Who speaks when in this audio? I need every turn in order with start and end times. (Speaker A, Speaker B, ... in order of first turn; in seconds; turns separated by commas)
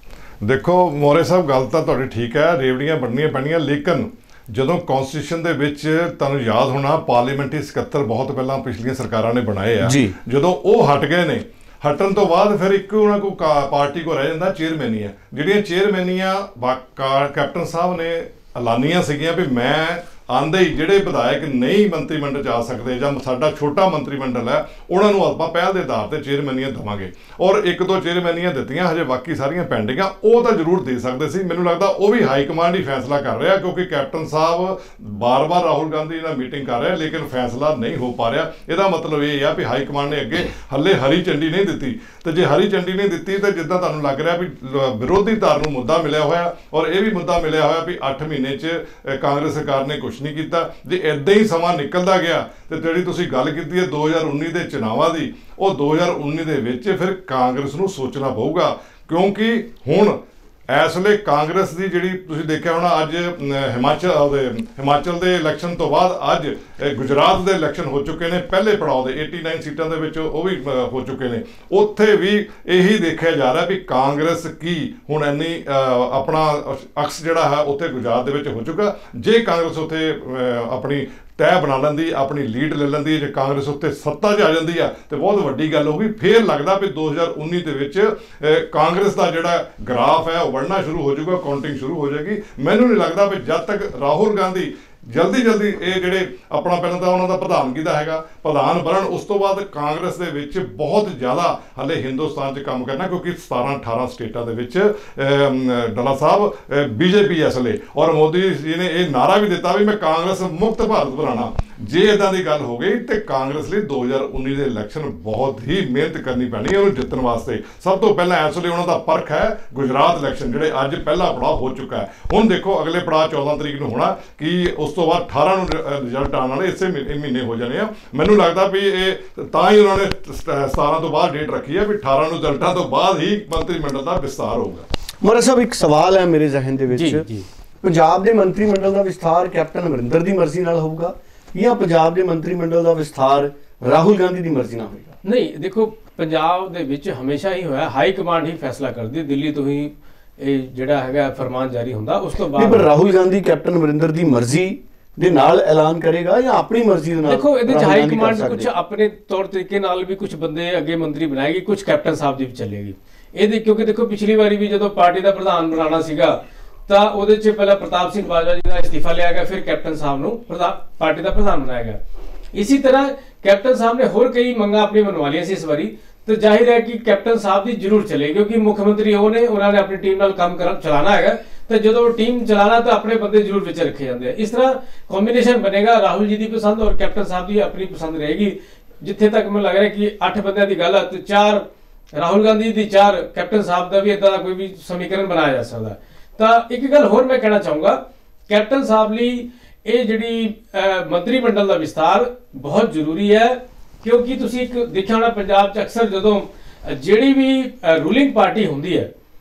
Speaker A: 0.4-60.2, Speaker B: 9.8-10.1, Speaker A: 60.7-134.8, Speaker B: 135.2-137.2, Speaker C: 136.9-137.4, Speaker B: 137.8-145.2, Speaker C: 145.2-152.9, Speaker B: 152.6-158.7, Speaker C: 157.2-172.0, Speaker C: 172.5-191.6, Speaker C: 192.1-209.1